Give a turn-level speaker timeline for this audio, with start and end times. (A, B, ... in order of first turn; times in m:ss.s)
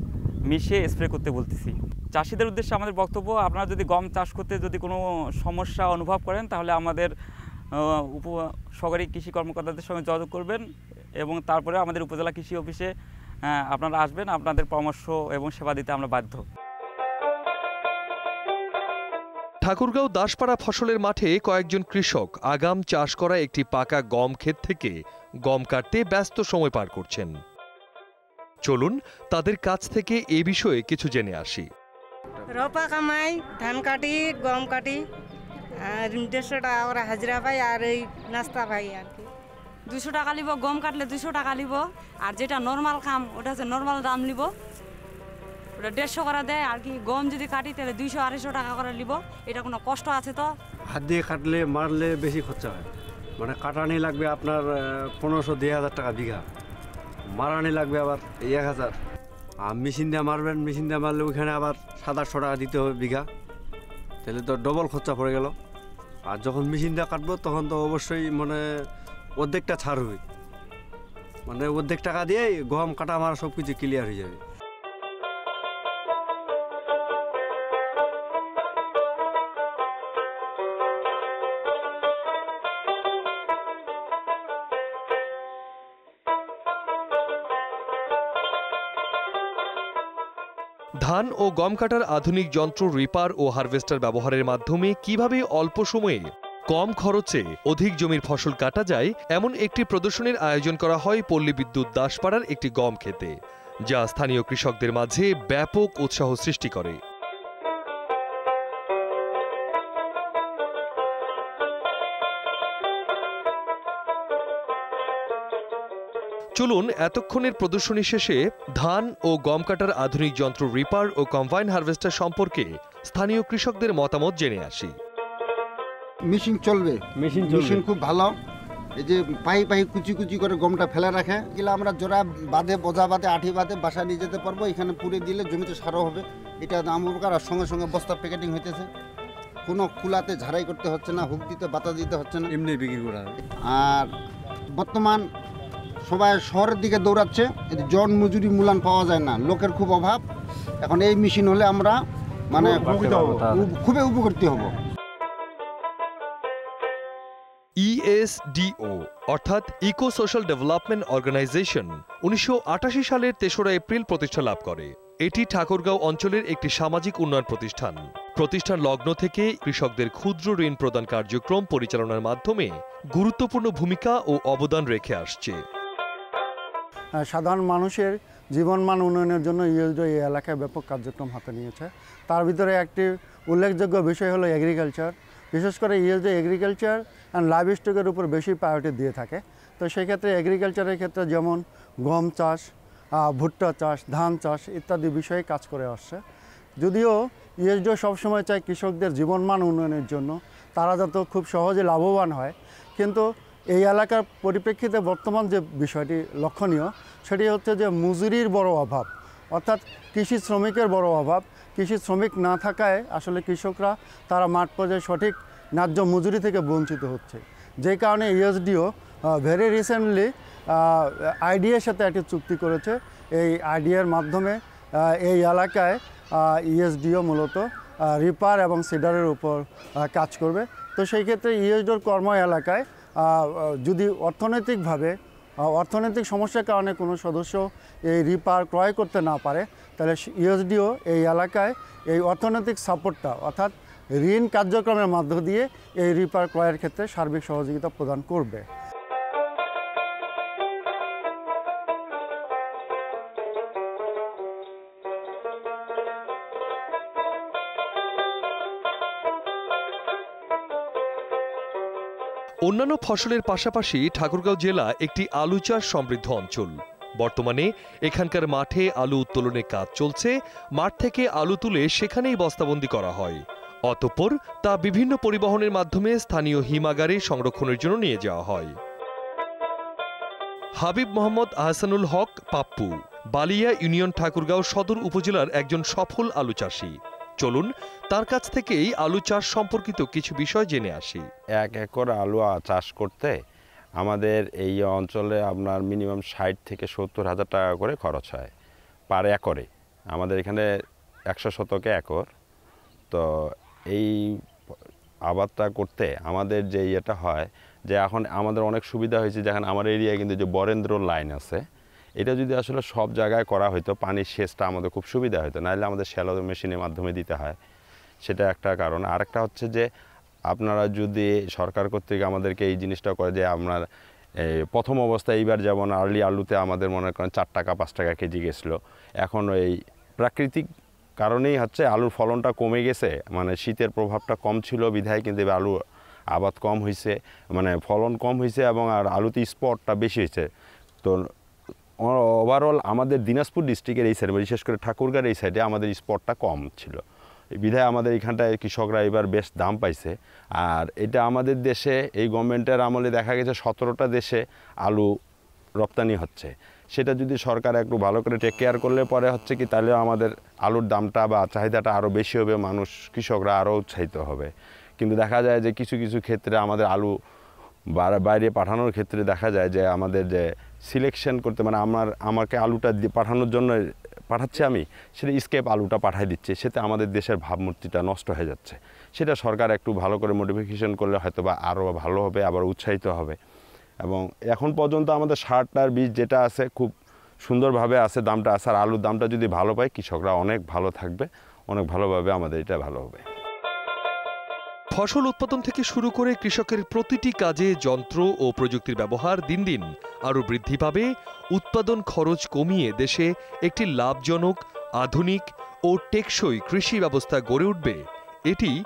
0:00.5-0:07.1 A
0:07.8-0:10.6 A
0:11.2-0:12.9 A
0:13.5-0:16.4 A
0:19.6-0:24.9 B
0:25.5-0:27.3 B
0:28.6-0:31.7 B
0:32.6-0:35.0 C
0:35.9-0:39.2 C
0:39.9-0:44.5 D
0:45.8-0:50.5 D
0:50.9-0:52.9 E
0:53.4-0:56.4 E
0:57.3-0:59.0 E
0:59.6-1:03.3 E
1:04.2-1:05.5 E
1:06.2-1:08.8 E
1:09.4-1:10.2 E
1:11.4-1:14.4 E
1:31.0-1:43.3 B
1:43.9-1:47.0 B
1:56.6-2:04.9 B
2:06.2-2:08.4 F
2:07.2-2:07.6 E
2:09.0-2:18.9 F
2:19.6-2:22.5 F
2:22.6-2:23.3 E
2:23.6-2:24.1 F
2:24.7-2:25.3 F
2:26.0-2:30.2 F
2:30.8-2:34.7 F
2:32.7-2:33.2 E
2:37.8-2:55.6 B
2:57.2-3:16.2 G
3:16.8-4:08.6 G
4:22.6-4:38.8 B
4:40.8-4:51.3 B
4:51.6-4:53.4 H
4:54.0-4:58.5 H
4:59.1-5:00.6 H
5:01.3-5:02.2 H
5:03.1-5:04.3 H
5:05.3-5:11.6 H
5:12.2-5:17.6 H
5:18.2-5:19.8 H
5:20.5-5:23.8 H
5:24.5-5:30.7 H
5:31.2-5:35.8 H
5:36.3-5:40.5 H
5:42.0-5:47.0 H
5:47.6-5:55.1 H
5:55.8-6:07.1 H
6:08.0-6:13.8 H
6:14.3-6:23.4 H
6:24.0-6:26.9 H
6:27.4-6:33.2 H
6:34.9-6:48.7 B